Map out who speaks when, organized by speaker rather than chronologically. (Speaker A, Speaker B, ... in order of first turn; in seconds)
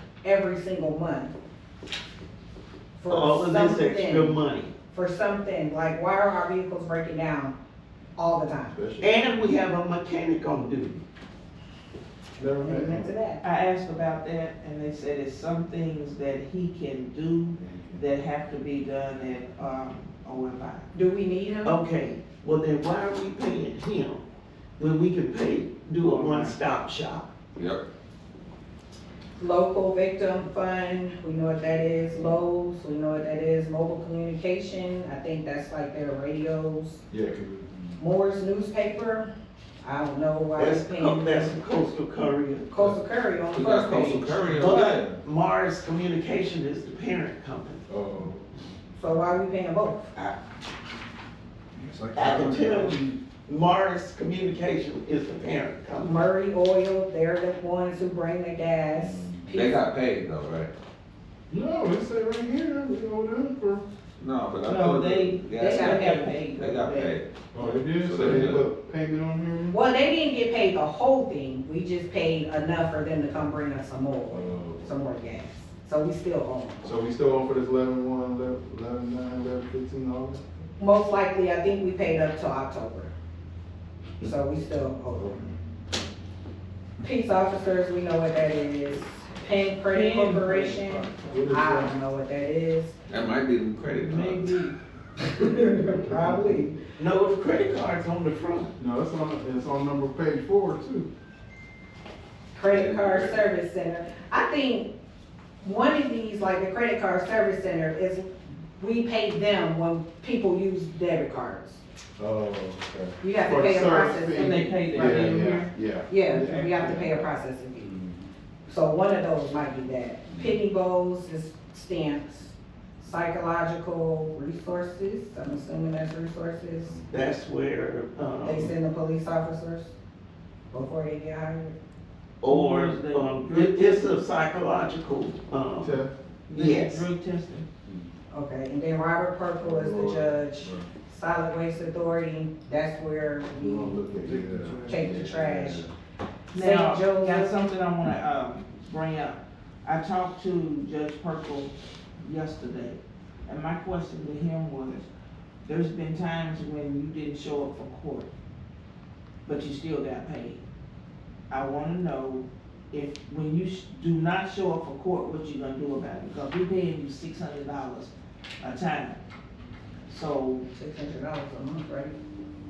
Speaker A: 0.2-1.3, 3.0-4.4, 4.9-7.5, 8.2-8.8, 12.6-13.4, 20.9-21.8, 29.4-37.0, 38.0-39.3, 39.8-41.6, 42.7-44.5, 49.0-50.0, 56.0-59.8, 65.5-66.3, 69.7-76.9, 80.8-83.1, 84.2-85.4, 87.0-93.0, 95.2-96.8, 102.5-104.9, 105.6-111.8, 113.2-117.9, 118.7-127.0, 128.4-129.9, 130.7-131.7, 138.3-144.0, 144.8-145.8, 146.5-147.6, 170.7-172.2
Speaker B: 3.1-4.7, 9.0-11.0, 21.6-24.2, 24.8-27.3, 40.5-42.7, 44.6-47.8, 52.1-56.3, 97.0-98.7, 127.1-128.7, 132.4-136.0, 136.5-137.0
Speaker C: 8.7-9.4, 12.4-13.1, 17.6-18.0, 37.1-38.0, 44.4-45.2, 47.9-48.5, 51.7-52.9, 59.0-59.5, 61.5-63.8, 67.5-69.7, 74.3-75.0, 76.8-80.4, 85.1-85.5, 91.3-91.9, 95.9-96.6, 98.8-101.1, 112.2-117.2, 117.9-118.2, 120.3-120.6, 135.8-136.1, 139.6-140.9, 143.5-145.9
Speaker D: 13.4-20.9, 26.0-26.6, 64.7-67.7, 89.8-91.3, 94.0-94.8, 114.3-115.7, 132.4-134.2, 136.5-137.7, 144.3-145.0, 146.5-155.1, 155.6-158.3, 159.4-160.6, 161.5-169.2, 170.1-170.7
Speaker E: 27.5-27.8, 43.5-45.1, 59.5-60.7, 64.2-68.6, 93.1-94.6, 102.7-103.4